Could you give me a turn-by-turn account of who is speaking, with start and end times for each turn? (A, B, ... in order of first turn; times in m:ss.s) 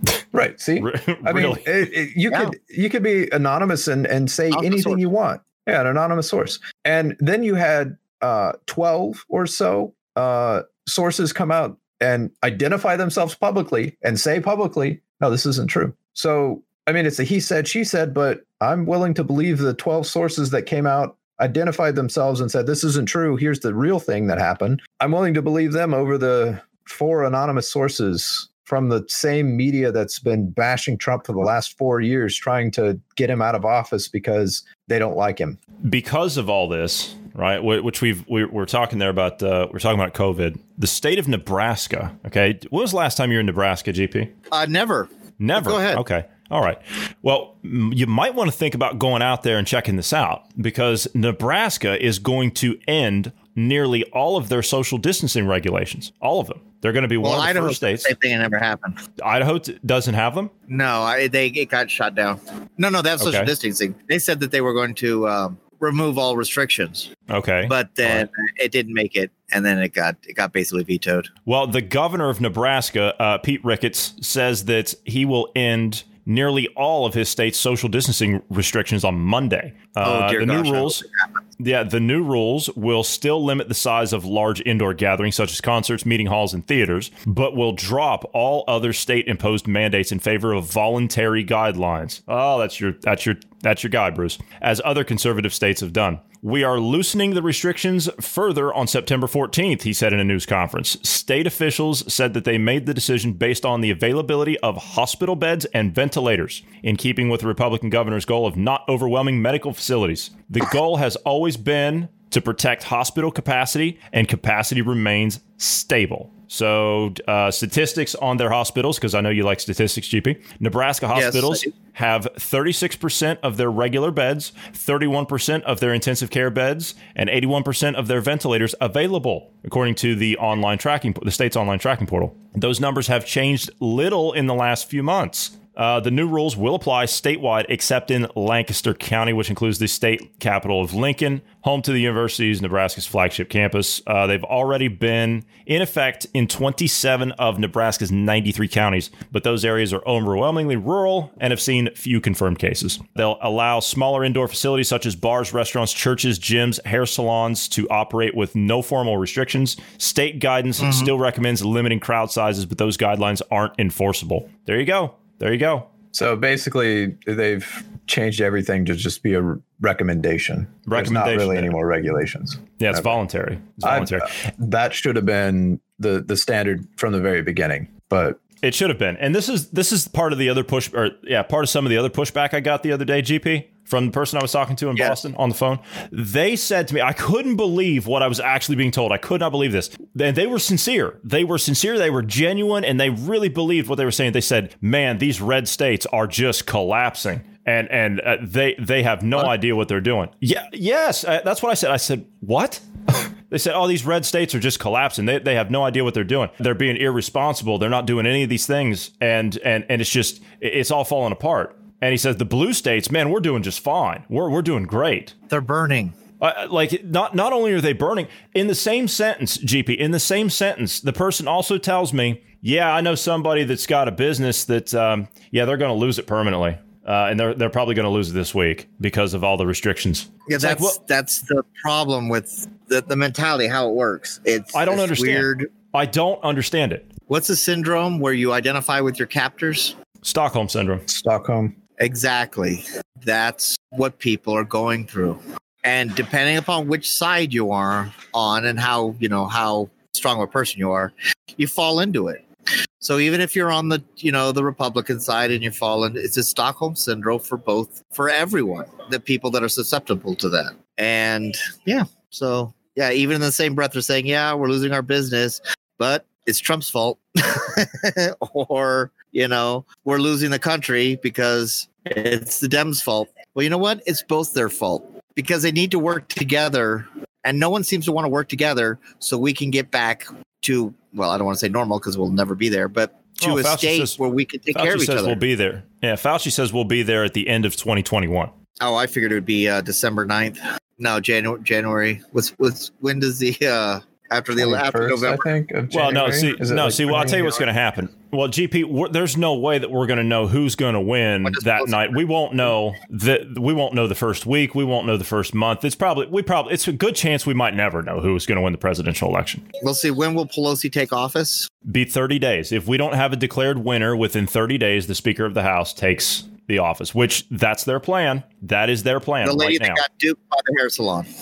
0:00.3-0:35.6 A
0:00.8-0:01.9 B
0:04.5-0:05.0 C
0:35.8-0:44.3 B
0:44.5-0:46.0 C
0:45.4-0:58.1 B
0:57.2-0:59.0 C
0:59.2-1:00.5 B
1:00.7-1:07.1 C
1:03.2-1:03.5 B
1:07.3-1:08.2 B
1:07.6-1:11.3 C
1:11.4-1:21.0 B
1:20.0-1:21.4 C
1:21.6-2:45.9 B
2:01.1-2:01.7 C
2:40.8-2:41.1 C
2:46.1-2:53.1 A
2:50.8-2:51.8 B
2:52.8-2:54.3 B
2:53.8-2:58.4 A
2:58.6-3:35.3 B
3:35.5-3:36.1 C
3:36.4-3:51.0 B
3:50.5-3:55.7 C
3:54.7-3:57.1 B
3:57.3-4:00.0 C
4:00.2-4:01.0 B
4:01.1-4:01.7 A
4:02.0-4:12.4 C
4:13.0-4:45.4 C
4:43.4-4:44.2 B
4:44.7-4:48.5 B
4:48.8-4:55.5 C
4:54.6-4:57.6 A
4:55.9-5:09.6 B
5:01.4-5:02.2 C
5:09.8-5:11.7 C
5:11.8-5:20.0 B
5:19.4-5:21.3 C